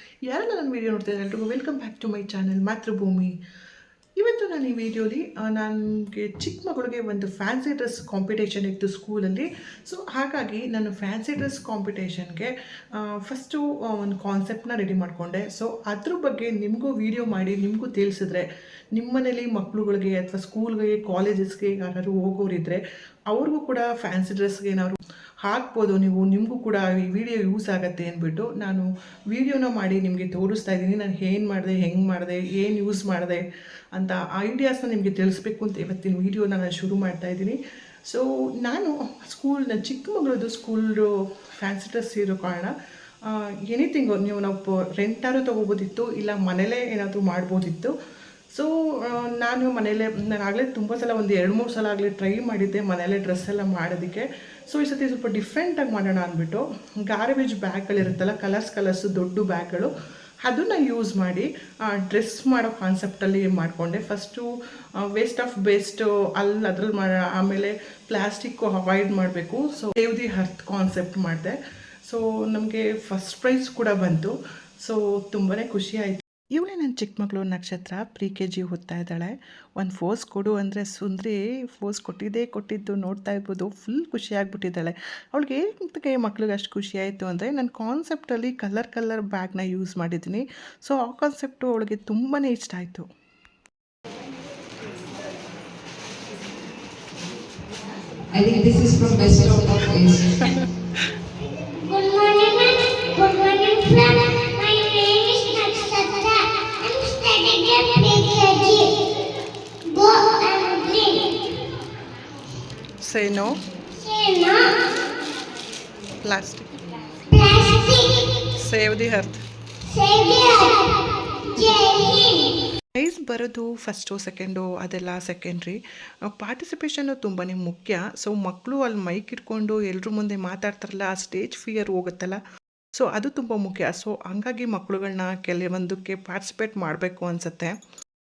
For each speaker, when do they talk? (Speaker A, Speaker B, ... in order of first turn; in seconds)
Speaker A: 0.2-3.3, 4.2-37.6, 38.1-42.7, 43.2-47.9, 48.5-59.9, 60.4-64.5, 65.0-71.5, 72.1-74.3, 74.8-93.0, 100.1-100.6, 113.0-113.6, 116.2-116.8, 118.6-119.4, 122.9-125.8, 126.3-132.4, 132.9-137.8
Speaker B: 98.3-100.4
Speaker C: 101.8-109.0, 109.8-111.5, 114.0-114.8, 117.3-118.5, 119.8-122.5